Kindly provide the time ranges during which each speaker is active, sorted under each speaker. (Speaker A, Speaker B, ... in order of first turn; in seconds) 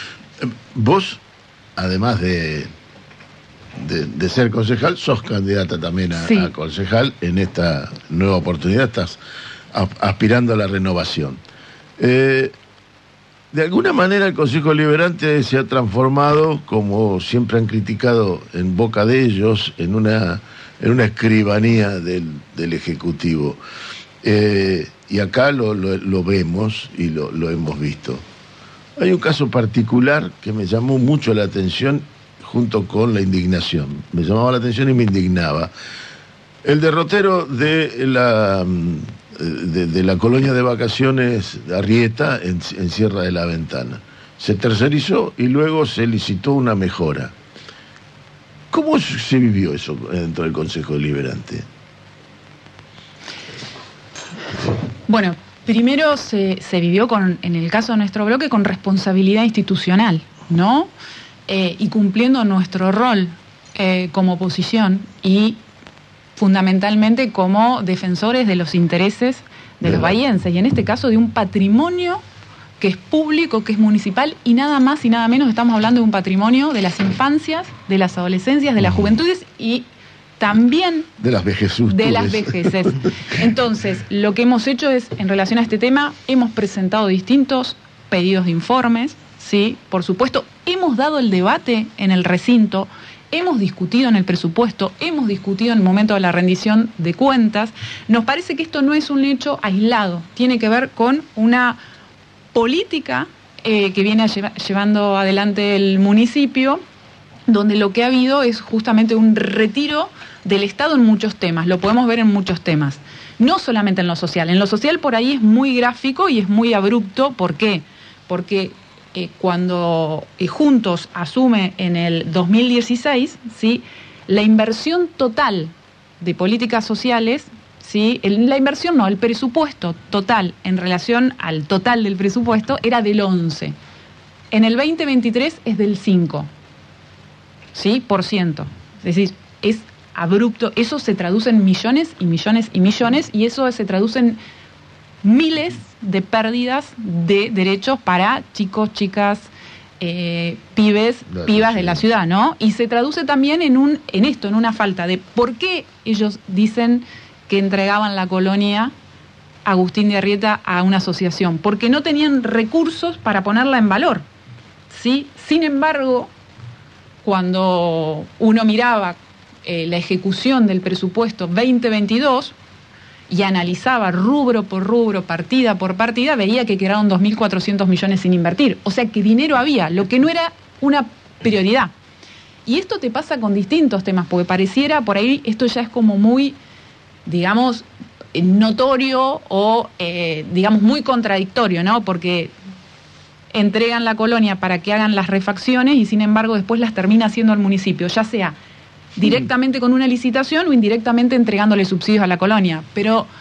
Speaker A: 0.4-1.2, 1.8-2.7, 3.8-9.2, 9.7-11.4, 12.0-12.5, 13.5-23.6, 24.2-28.2, 29.0-35.7, 36.6-47.3, 48.7-51.6, 69.8-70.2, 78.8-79.1, 81.2-82.9, 151.3-152.1
Speaker B: 6.2-6.5, 55.1-60.9, 61.5-65.6, 66.4-72.2, 72.8-79.9, 80.4-81.1, 81.9-101.8, 102.5-106.8, 107.5-133.8, 134.5-136.5, 137.7-144.4, 145.2-149.5, 150.0-158.9, 159.7-164.2, 164.9-166.3, 167.2-172.5, 173.3-181.9, 182.7-186.6, 187.3-192.5, 193.5-198.6, 199.2-203.3